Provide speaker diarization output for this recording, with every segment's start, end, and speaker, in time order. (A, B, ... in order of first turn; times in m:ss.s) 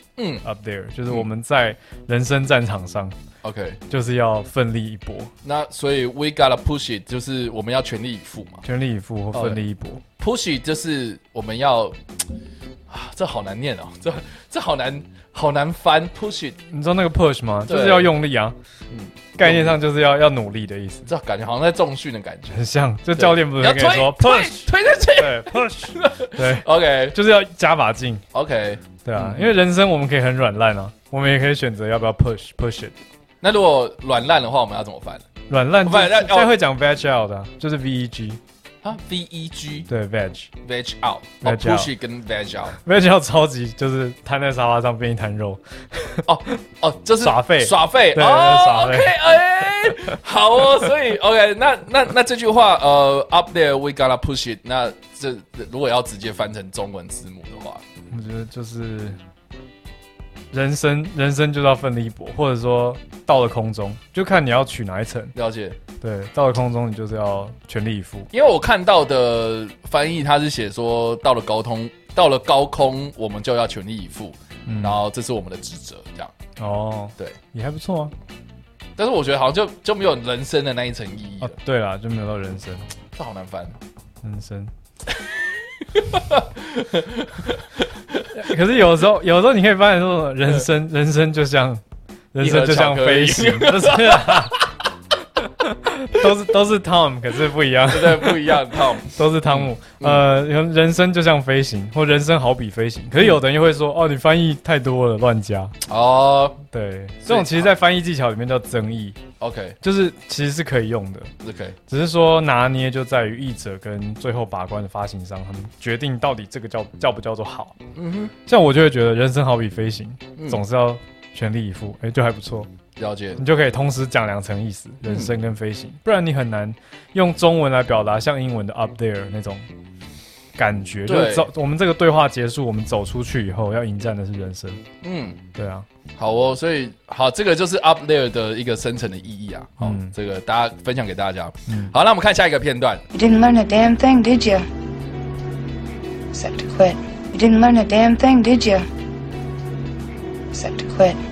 0:00.2-0:00.4 A
0:00.4-0:03.2 B
0:03.4-0:03.8 A
0:03.9-0:05.3 B
0:05.4-0:08.6 A
0:08.6-0:10.0 B
0:09.3-0:09.6 A
0:10.2-0:12.0 A
0:12.9-0:16.6 A
0:16.7-0:18.6 B
0:17.7-0:18.1 A
0:18.9-0:19.8 A
0:19.4-0:21.1 B
0:21.1-0:22.5 A
0:22.5-0:28.2 B
0:23.1-0:27.2 A
0:28.3-0:29.5 A
0:29.0-0:32.9 B
0:33.4-0:35.2 A
0:35.5-0:38.4 B
0:35.8-0:36.5 A
0:38.8-0:39.9 A
0:39.9-0:40.5 B
0:40.6-0:42.8 A
0:41.4-0:41.9 B
0:42.8-0:46.3 B
0:46.3-0:57.8 A
0:47.2-0:49.2 B
0:58.1-0:59.2 B
1:00.5-1:05.3 B
1:05.4-1:05.8 A
1:06.0-1:08.3 B
1:08.3-1:16.3 A
1:14.7-1:15.0 B
1:16.6-1:18.1 B
1:19.0-1:21.6 A
1:21.4-1:22.9 B
1:23.2-1:23.8 A
1:24.2-1:24.7 B
1:25.9-1:27.6 A
1:28.3-1:31.8 B
1:32.3-1:34.6 B
1:32.4-1:34.7 A
1:35.4-1:45.7 B
1:37.9-1:40.3 A
1:45.9-1:46.6 A
1:46.7-1:49.2 B
1:47.2-1:47.7 A
1:49.4-1:49.8 A
1:49.8-1:51.3 B
1:51.4-1:51.8 A
1:51.9-1:57.8 B
1:58.0-1:58.3 A
1:58.5-2:02.7 B
2:00.4-2:00.6 A
2:03.0-2:03.4 A
2:03.4-2:09.7 B
2:05.0-2:05.3 A
2:10.6-2:14.8 B
2:11.1-2:11.5 A
2:15.0-2:15.4 A
2:15.6-2:15.9 B
2:16.2-2:23.0 A
2:19.8-2:20.1 B
2:21.7-2:21.9 B
2:23.1-2:24.7 C
2:26.3-2:28.9 C
2:30.5-2:31.2 C